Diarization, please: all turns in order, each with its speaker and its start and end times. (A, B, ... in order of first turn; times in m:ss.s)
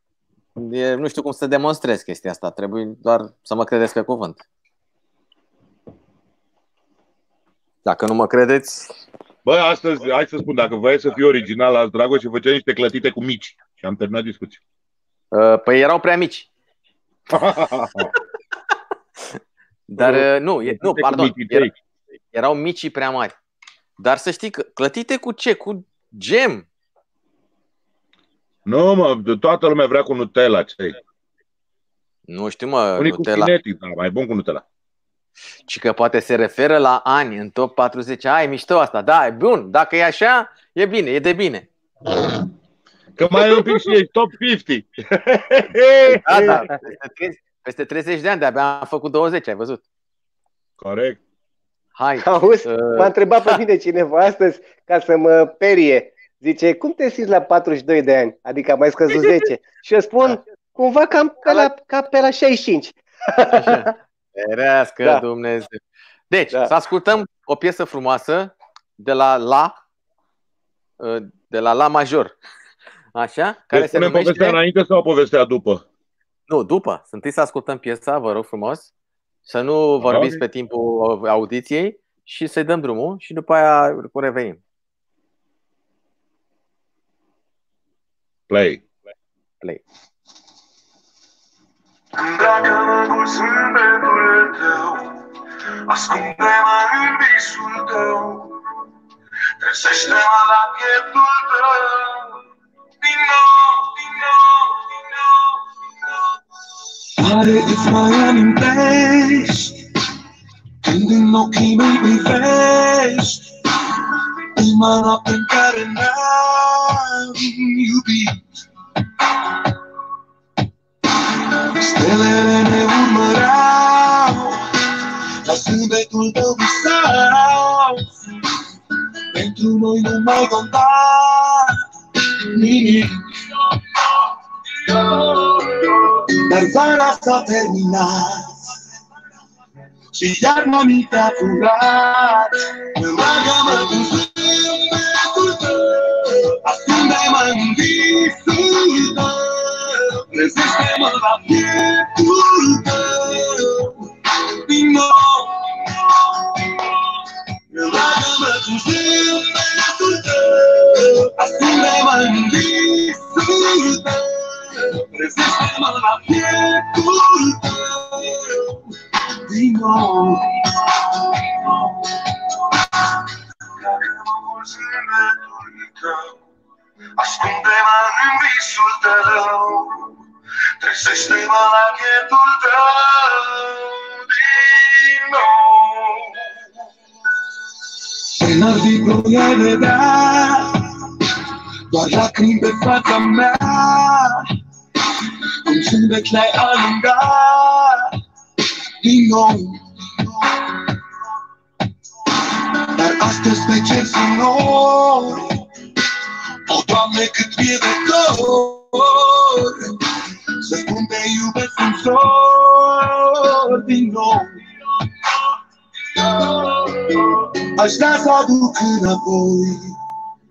0:00.6-0:04.4 A
0:07.8-0:09.0 A
0:09.4-0:14.6 B
0:15.3-0:16.5 A
0:17.3-0:18.1 B
0:19.3-0:21.7 A
0:20.0-0:21.7 B
0:22.3-0:23.4 A
0:24.0-0:26.7 A
0:28.7-0:31.0 B
0:32.3-0:33.5 A
0:33.0-0:34.6 B
0:35.7-0:41.7 A
0:43.2-0:46.7 B
0:46.2-0:49.8 A
0:50.8-0:51.2 B
0:52.0-0:53.6 A
0:52.2-1:03.9 C
1:03.5-1:09.8 A
1:11.0-1:12.4 A
1:13.2-1:14.6 A
1:13.7-1:15.8 B
1:16.5-1:18.9 A
1:19.5-1:24.6 A
1:20.0-1:20.4 B
1:28.5-1:28.8 B
1:32.2-1:35.2 D
1:35.9-1:38.6 D
1:39.6-1:42.4 D
1:43.0-1:45.6 D
1:47.2-1:49.8 D
1:50.8-1:53.5 D
1:54.6-1:58.4 D
2:01.8-2:04.6 D
2:05.4-2:08.0 D
2:09.3-2:11.7 D
2:12.5-2:13.3 D
2:14.9-2:18.6 D
2:20.2-2:34.0 D
2:34.6-2:35.9 D
2:37.7-2:48.8 D
2:49.5-2:52.3 D
2:53.8-2:56.4 D
2:57.2-3:00.1 D
3:00.8-3:06.4 D
3:08.4-3:10.8 D
3:11.9-3:14.4 D
3:15.7-3:18.1 D
3:19.0-3:20.8 D
3:22.7-3:25.6 D
3:26.7-3:30.0 D
3:30.6-3:34.6 D
3:36.2-3:39.9 D